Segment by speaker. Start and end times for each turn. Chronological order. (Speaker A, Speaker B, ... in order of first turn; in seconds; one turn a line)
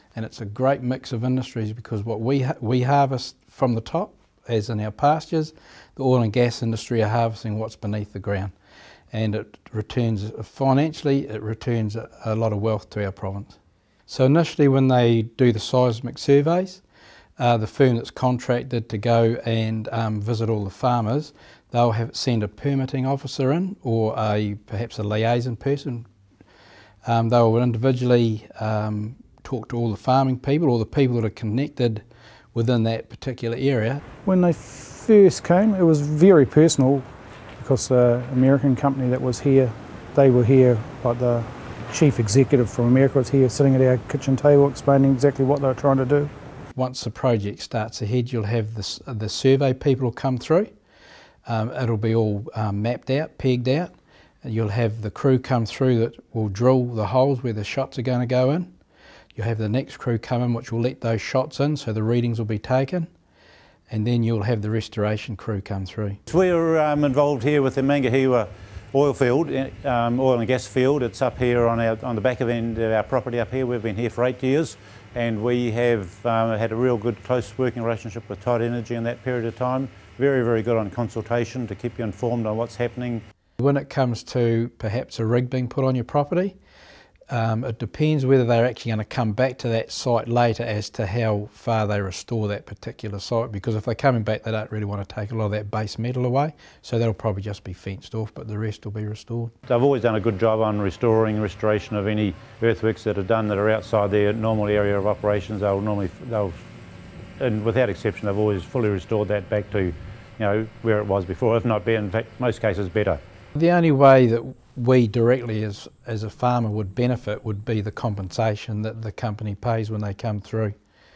Speaker A: 0.1-8.5
Speaker A: 9.1-13.6
Speaker A: 14.1-16.8
Speaker A: 17.4-26.1
Speaker A: 27.0-34.0
Speaker B: 34.2-37.0
Speaker B: 37.6-46.3
Speaker A: 46.8-50.7
Speaker A: 51.5-53.9
Speaker A: 54.4-58.7
Speaker A: 59.3-63.1
Speaker A: 63.9-66.2
Speaker C: 66.3-83.2
Speaker A: 83.6-86.5
Speaker A: 87.3-99.5
Speaker C: 99.7-106.5
Speaker C: 107.4-113.2
Speaker A: 113.5-120.7